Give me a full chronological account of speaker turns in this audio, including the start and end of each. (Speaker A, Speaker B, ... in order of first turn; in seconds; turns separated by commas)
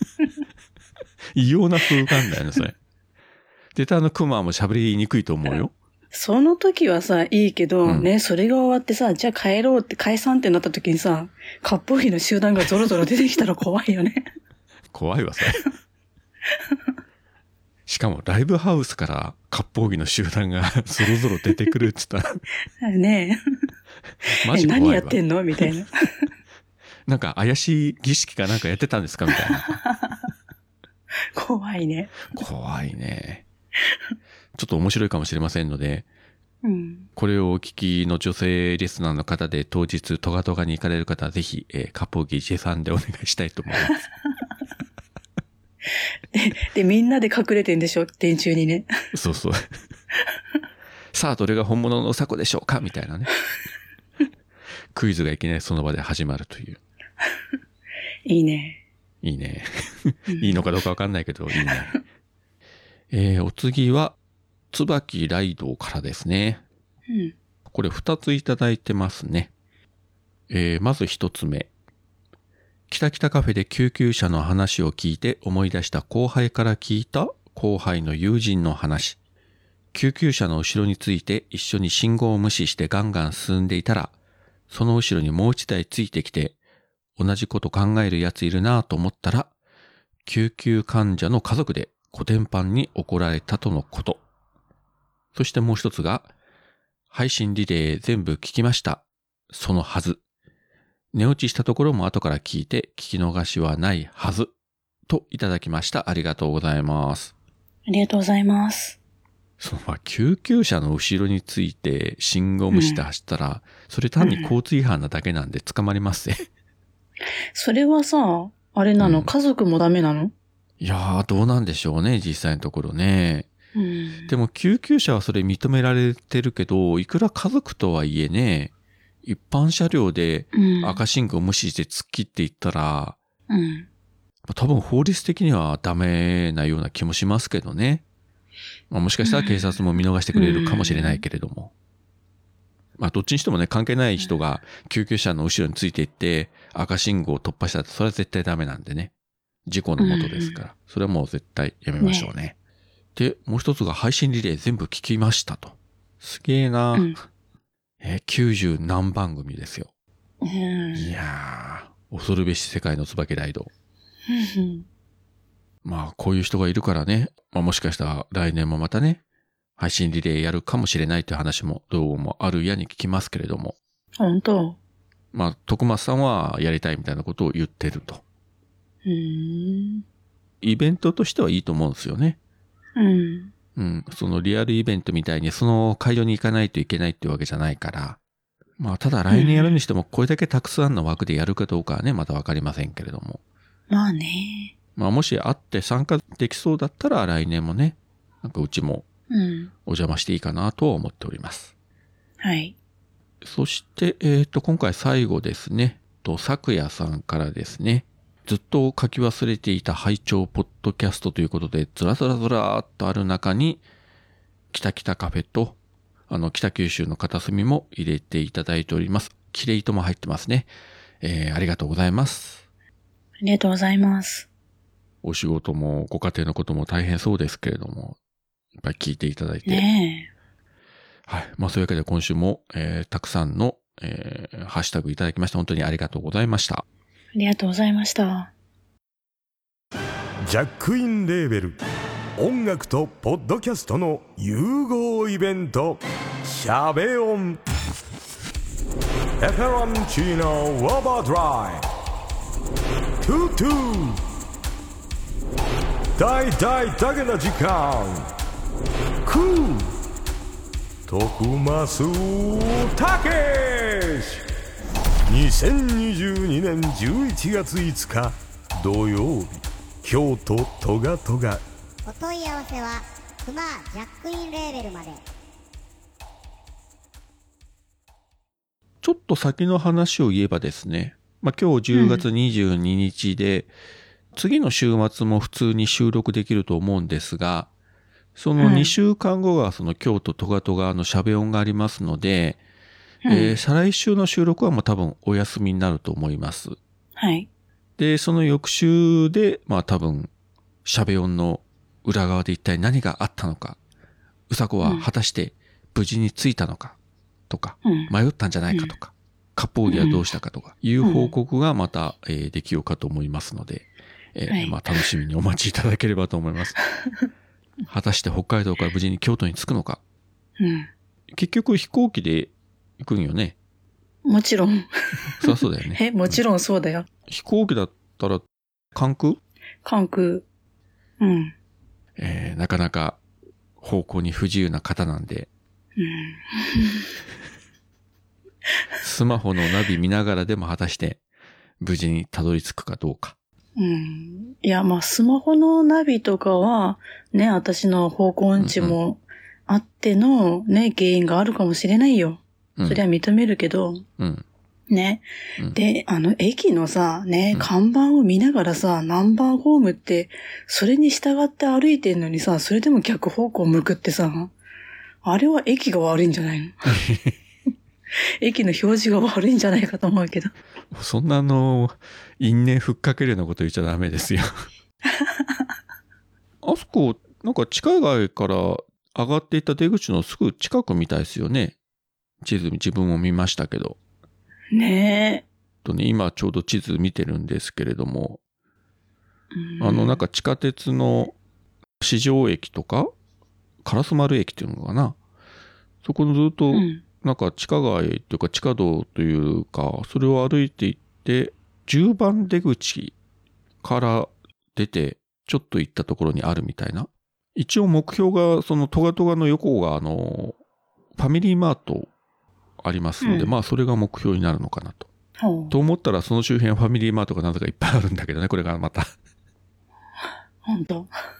Speaker A: 1.3-2.8, Speaker A: 3.7-5.7, Speaker B: 6.1-14.2, Speaker A: 14.9-15.7, Speaker A: 17.9-22.4, Speaker B: 22.8-23.4, Speaker A: 24.3-25.2, Speaker B: 24.5-25.9, Speaker A: 27.1-29.8, Speaker B: 29.8-30.2, Speaker B: 31.3-32.3, Speaker A: 32.3-33.4, Speaker A: 34.5-36.0, Speaker B: 36.6-37.1, Speaker A: 37.1-44.0, Speaker B: 46.3-48.9, Speaker A: 49.1-49.7, Speaker A: 51.1-53.3, Speaker A: 54.9-56.8, Speaker B: 58.2-58.8, Speaker A: 59.2-62.0, Speaker B: 60.3-60.6, Speaker A: 63.1-64.2, Speaker A: 64.7-66.6, Speaker B: 67.1-67.3, Speaker A: 67.7-69.5, Speaker A: 70.5-71.7, Speaker A: 72.9-79.2, Speaker A: 79.9-84.1, Speaker A: 84.7-86.6, Speaker A: 87.2-89.5, Speaker A: 90.2-94.2, Speaker A: 95.3-96.3, Speaker A: 97.1-100.2, Speaker A: 101.1-104.5, Speaker A: 105.1-107.3, Speaker B: 107.9-109.0, Speaker A: 109.6-116.4, Speaker B: 112.7-113.0, Speaker B: 114.2-114.5, Speaker B: 117.5-120.3, Speaker A: 119.0-119.3, Speaker A: 120.8-123.5, Speaker B: 123.7-124.3, Speaker A: 124.3-128.7, Speaker A: 129.2-133.2, Speaker B: 130.5-131.0, Speaker B: 133.5-133.9, Speaker A: 134.5-138.0, Speaker A: 138.9-141.7, Speaker B: 139.2-139.7, Speaker B: 140.3-141.2, Speaker A: 143.0-149.1, Speaker A: 149.7-152.5, Speaker B: 150.0-150.6, Speaker B: 152.0-152.3, Speaker A: 153.1-157.1, Speaker A: 158.0-159.9, Speaker B: 160.4-161.1, Speaker A: 160.9-163.7, Speaker B: 164.3-164.8, Speaker A: 165.8-169.2, Speaker A: 169.8-173.8, Speaker B: 174.2-174.8, Speaker A: 175.3-178.2, Speaker B: 179.0-180.0, Speaker A: 180.6-182.4, Speaker B: 182.9-183.5, Speaker A: 183.8-188.2, Speaker A: 188.8-193.4, Speaker B: 189.3-189.8, Speaker B: 193.9-194.7, Speaker A: 194.9-199.1, Speaker B: 199.3-199.7, Speaker A: 199.8-201.7, Speaker B: 202.4-202.8, Speaker A: 203.4-213.8, Speaker A: 214.7-215.8, Speaker A: 216.3-220.7, Speaker A: 221.2-222.6, Speaker B: 223.4-224.5, Speaker A: 225.2-228.2, Speaker A: 228.8-229.8, Speaker B: 229.7-230.3, Speaker A: 231.3-236.8, Speaker B: 237.3-238.5, Speaker C: 240.4-241.8, Speaker C: 242.4-247.6, Speaker C: 249.4-251.9, Speaker C: 253.2-254.2, Speaker C: 256.2-258.3, Speaker C: 259.2-259.9, Speaker C: 261.1-264.4, Speaker C: 265.3-271.6, Speaker D: 272.0-275.2, Speaker A: 279.0-283.7, Speaker B: 281.9-282.2, Speaker A: 284.3-287.7, Speaker A: 288.4-292.6, Speaker B: 288.6-288.9, Speaker B: 293.2-293.6, Speaker A: 293.3-296.8, Speaker B: 297.1-297.5, Speaker A: 298.0-300.3, Speaker A: 300.8-303.8, Speaker A: 304.5-306.9, Speaker B: 304.8-305.1, Speaker A: 307.5-316.8, Speaker B: 307.8-308.1, Speaker B: 309.9-310.2, Speaker B: 311.0-311.3, Speaker B: 314.5-314.8, Speaker A: 317.9-320.0, Speaker B: 320.6-320.9, Speaker A: 321.3-323.5, Speaker B: 324.2-327.1, Speaker A: 325.4-326.4, Speaker A: 327.3-329.4, Speaker B: 329.8-330.4, Speaker B: 331.2-331.5, Speaker A: 332.2-333.2, Speaker A: 333.8-335.5, Speaker B: 336.0-337.1, Speaker A: 339.0-341.2, Speaker A: 341.8-343.3, Speaker B: 343.8-354.0, Speaker A: 348.6-349.0, Speaker A: 352.8-353.0, Speaker A: 354.2-354.4, Speaker B: 354.9-364.5, Speaker B: 365.2-366.9, Speaker A: 366.9-367.3, Speaker B: 368.4-370.5, Speaker A: 370.9-374.6, Speaker A: 376.6-381.8, Speaker A: 382.4-384.0, Speaker B: 384.7-385.4, Speaker A: 385.8-388.4, Speaker B: 389.5-390.2, Speaker A: 389.8-391.3, Speaker A: 392.0-393.1, Speaker A: 393.8-395.2, Speaker A: 396.0-403.1, Speaker B: 396.7-397.0, Speaker A: 403.8-410.6, Speaker A: 411.1-412.1, Speaker A: 412.8-415.1, Speaker B: 413.2-413.5, Speaker B: 415.4-415.7, Speaker A: 415.7-419.1, Speaker B: 420.6-421.1